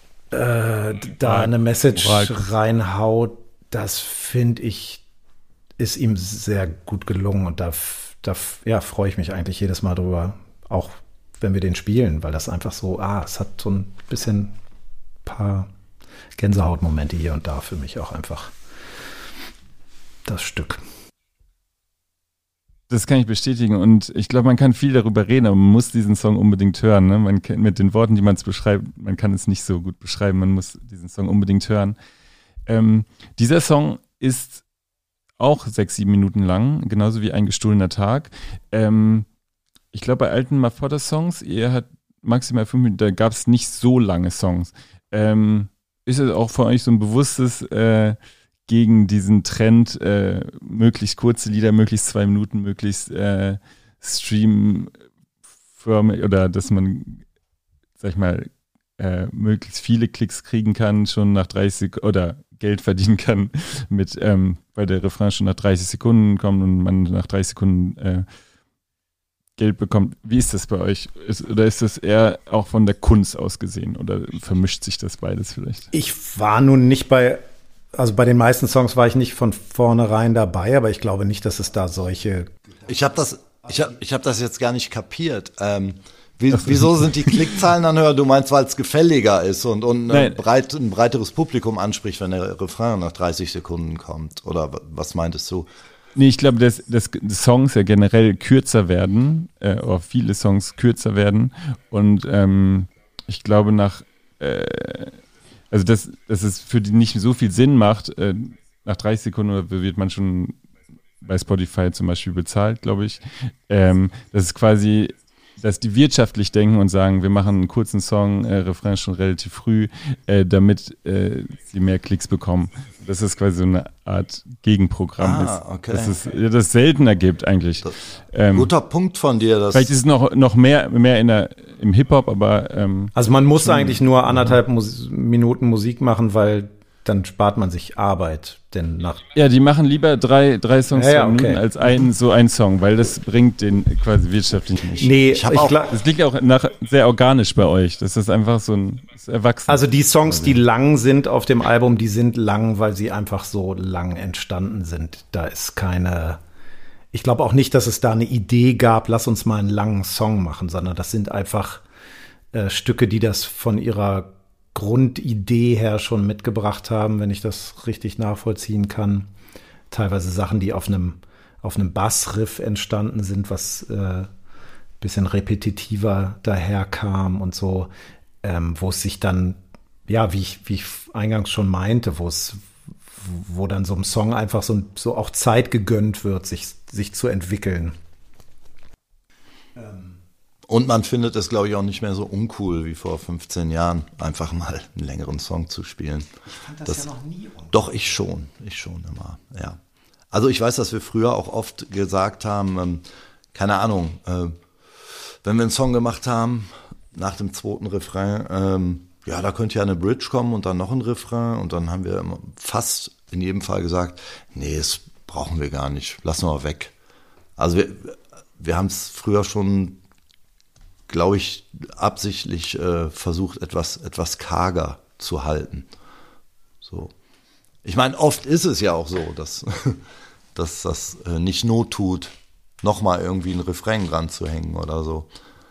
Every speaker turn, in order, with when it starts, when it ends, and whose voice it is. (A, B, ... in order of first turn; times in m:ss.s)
0:00.3-0:05.0 A
0:01.3-0:02.4 B
0:05.8-0:14.5 A
0:15.2-0:15.7 A
0:16.4-0:18.5 A
0:20.3-0:20.8 A
0:22.9-0:32.0 B
0:32.7-0:34.6 B
0:35.4-0:39.3 B
0:39.9-0:54.9 B
0:55.8-0:57.2 B
0:58.0-1:08.3 B
1:09.6-1:15.9 B
1:15.9-1:17.4 A
1:17.9-1:22.5 A
1:22.9-1:35.7 C
1:30.1-1:30.4 B
1:36.2-1:45.2 B
1:45.7-1:50.6 B
1:51.2-2:08.7 B
2:05.2-2:06.2 C
2:08.5-2:09.9 C
2:09.7-2:14.5 B
2:13.2-2:19.3 A
2:19.4-2:30.6 B
2:20.9-2:21.6 A
2:25.0-2:25.9 A
2:25.3-2:25.8 C
2:29.7-2:36.4 A
2:37.1-2:41.8 A
2:42.5-2:49.3 A
2:49.9-2:54.3 A
2:55.0-2:57.9 A
2:58.4-3:08.0 A
3:09.8-3:10.2 A
3:10.7-3:16.3 C
3:16.5-3:18.0 A
3:17.7-3:19.8 C
3:20.3-3:36.9 C
3:37.6-3:40.0 C
3:41.1-3:45.9 C
3:46.8-3:47.1 C
3:47.8-3:50.0 C
3:50.6-3:55.3 C